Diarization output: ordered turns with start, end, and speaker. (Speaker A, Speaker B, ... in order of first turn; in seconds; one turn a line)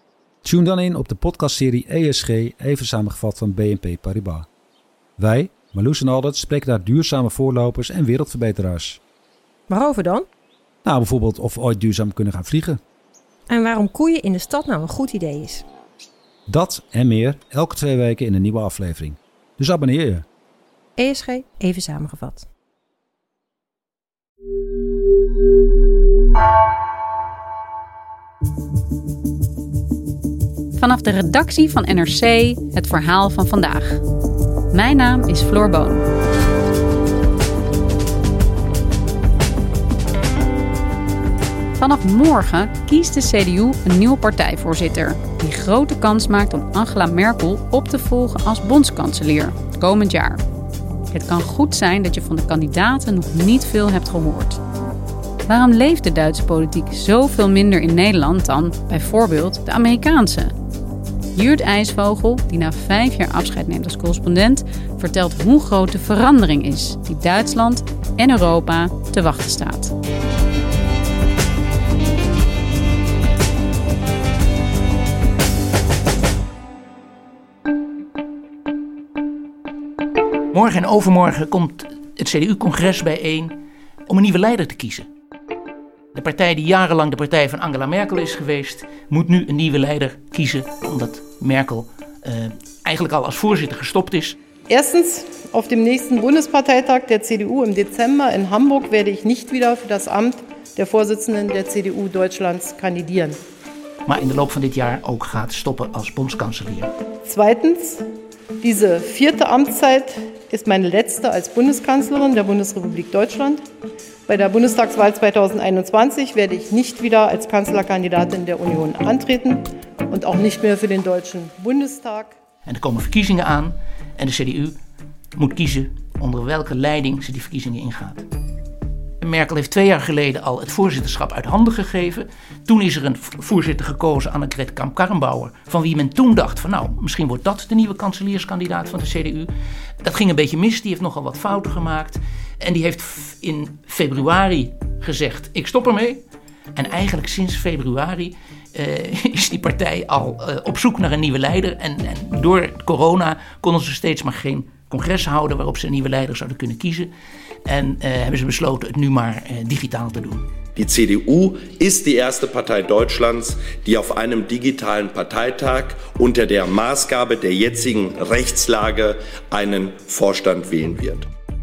Speaker A: 0.4-4.5
Speaker A: 5.2-9.0
Speaker B: 9.7-10.3
Speaker A: 10.8-12.8
Speaker B: 13.5-15.6
Speaker A: 16.5-20.2
Speaker B: 21.0-22.5
Speaker C: 30.8-34.0
Speaker C: 34.7-36.1
Speaker C: 41.8-50.4
Speaker C: 51.1-54.6
Speaker C: 55.5-60.5
Speaker C: 61.3-69.9
Speaker D: 80.5-85.1
Speaker D: 86.1-94.3
Speaker E: 94.7-103.4
Speaker D: 104.1-106.9
Speaker E: 107.2-108.0
Speaker E: 108.6-113.6
Speaker E: 114.3-122.3
Speaker D: 122.7-124.8
Speaker D: 125.4-128.2
Speaker D: 129.2-139.5
Speaker D: 140.0-146.2
Speaker D: 146.8-157.1
Speaker D: 157.7-160.5
Speaker F: 160.8-171.2